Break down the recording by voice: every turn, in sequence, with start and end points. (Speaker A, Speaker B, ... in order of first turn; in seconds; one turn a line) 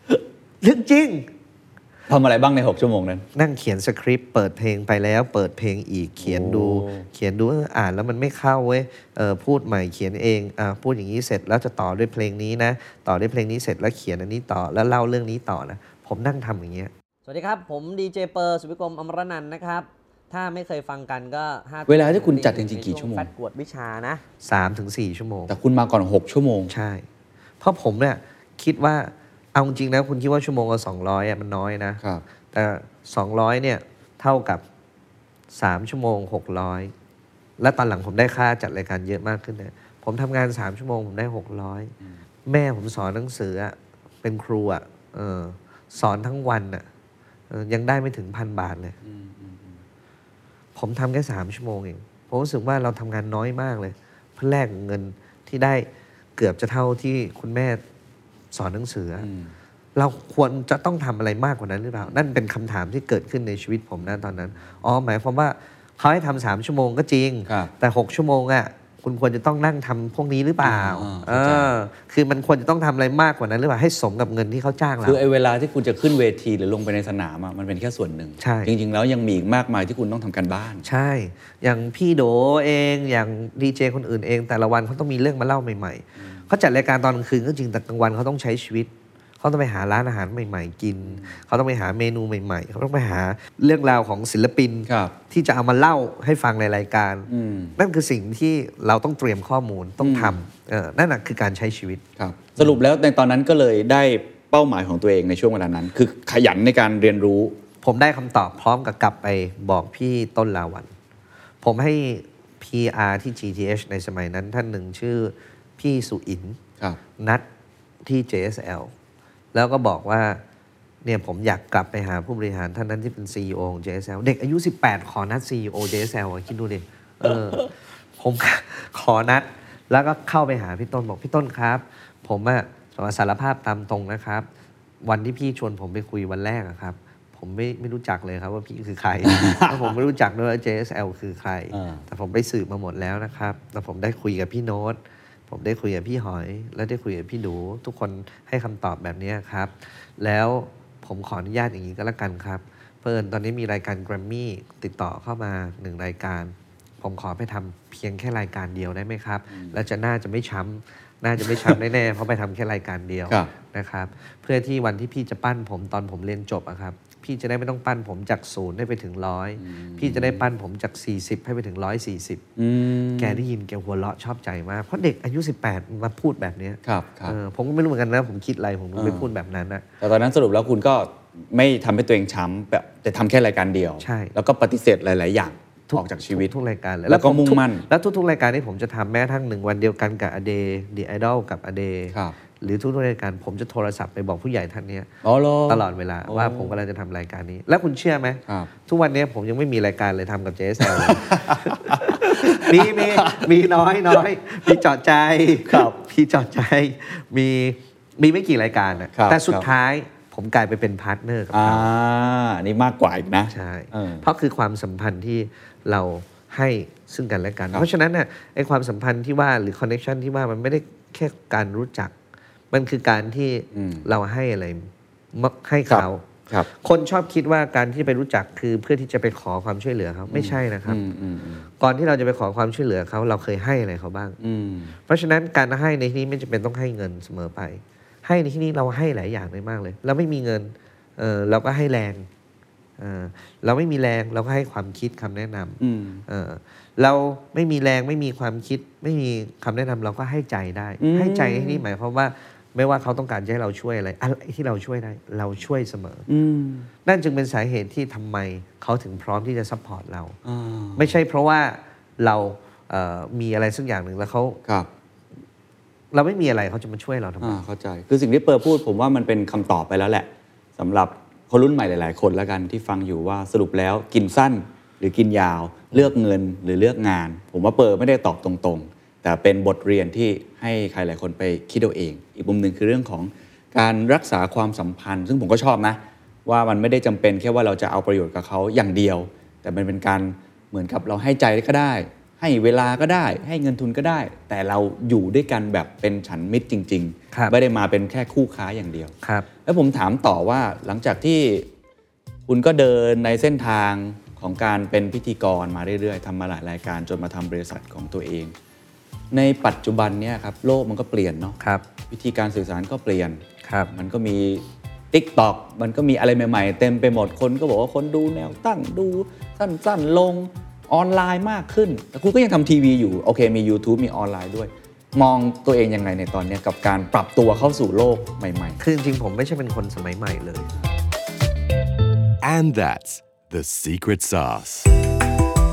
Speaker A: 0.6-1.3
Speaker B: 2.1-3.2
Speaker A: 3.3-16.9
Speaker B: 6.2-7.0
Speaker C: 17.2-24.2
Speaker B: 21.9-23.3
Speaker A: 24.4-25.5
Speaker B: 25.5-26.7
Speaker A: 26.7-27.0
Speaker A: 27.6-32.0
Speaker A: 32.5-34.6
Speaker A: 35.5-36.9
Speaker A: 37.6-41.9
Speaker A: 42.5-46.8
Speaker A: 47.5-49.0
Speaker B: 49.0-49.8
Speaker A: 50.8-57.8
Speaker A: 58.5-59.3
Speaker B: 59.2-59.5
Speaker A: 60.0-75.2
Speaker B: 64.0-64.5
Speaker B: 67.5-67.7
Speaker B: 70.6-71.7
Speaker B: 75.0-80.8
Speaker A: 78.4-78.7
Speaker A: 80.8-102.0
Speaker B: 91.1-91.3
Speaker B: 94.9-95.1
Speaker B: 97.3-97.7
Speaker B: 100.0-100.4
Speaker B: 102.2-107.5
Speaker A: 107.8-110.9
Speaker A: 111.6-116.6
Speaker A: 117.2-117.4
Speaker A: 118.0-118.9
Speaker A: 119.5-120.4
Speaker A: 121.0-134.5
Speaker A: 135.0-145.0
Speaker B: 139.2-139.9
Speaker B: 141.7-142.0
Speaker A: 145.5-172.4
Speaker B: 161.4-161.8
Speaker B: 169.6-170.4
Speaker B: 172.6-173.4
Speaker A: 173.2-179.8
Speaker B: 176.8-177.4
Speaker B: 178.9-179.3
Speaker B: 180.0-186.5
Speaker A: 184.0-184.3
Speaker A: 185.9-195.1
Speaker B: 187.1-187.9
Speaker B: 195.2-196.8
Speaker A: 195.7-211.9
Speaker B: 200.8-203.5
Speaker B: 204.1-204.8
Speaker B: 205.7-206.0
Speaker B: 209.1-209.7
Speaker B: 211.5-214.3
Speaker A: 213.5-222.1
Speaker A: 222.7-231.0
Speaker B: 223.7-224.1
Speaker B: 225.9-226.7
Speaker B: 230.3-231.7
Speaker A: 231.8-234.4
Speaker B: 234.4-234.9
Speaker A: 235.1-242.2
Speaker A: 243.0-256.3
Speaker B: 245.8-246.2
Speaker B: 251.0-251.8
Speaker B: 256.3-256.9
Speaker A: 257.0-260.4
Speaker B: 260.4-261.1
Speaker A: 260.9-264.6
Speaker A: 266.1-267.6
Speaker B: 267.4-299.1
Speaker B: 299.6-301.7
Speaker B: 302.5-308.5
Speaker B: 309.3-313.4
Speaker A: 313.6-313.9
Speaker B: 313.9-328.8
Speaker A: 328.8-330.7
Speaker D: 332.4-334.9